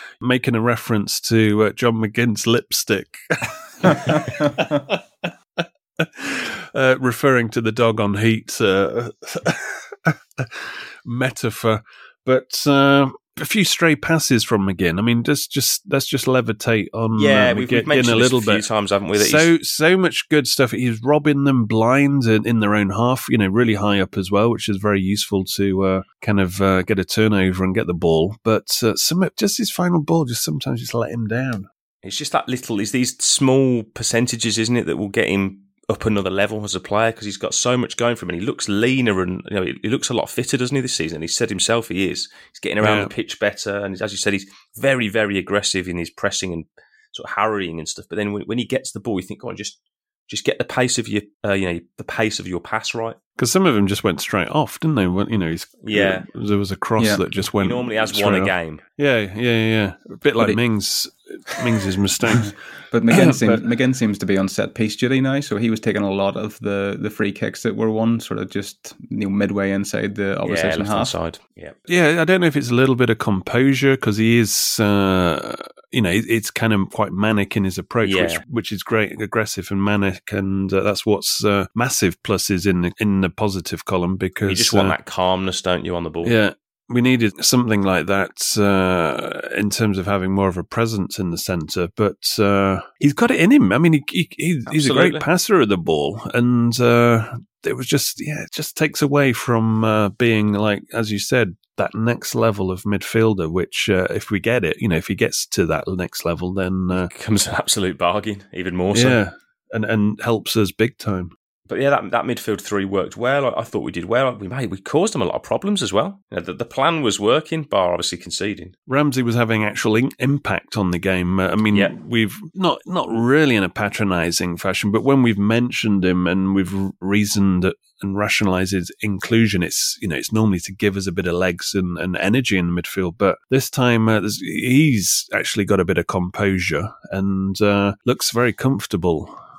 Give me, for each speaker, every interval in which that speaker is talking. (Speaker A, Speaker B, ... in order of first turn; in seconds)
Speaker A: 0.2-31.7, 42.8-43.1, 53.4-62.6, 63.1-63.6, 71.9-85.0, 86.2-107.1, 108.9-111.3, 118.9-139.3
Speaker B: 17.2-19.5, 32.0-49.8, 50.3-53.2, 55.8-56.3, 57.6-58.8, 70.4-71.8, 78.0-78.4, 84.5-86.3, 94.7-95.2, 106.9-109.2, 111.7-118.8
Speaker C: 57.0-57.2, 62.4-71.1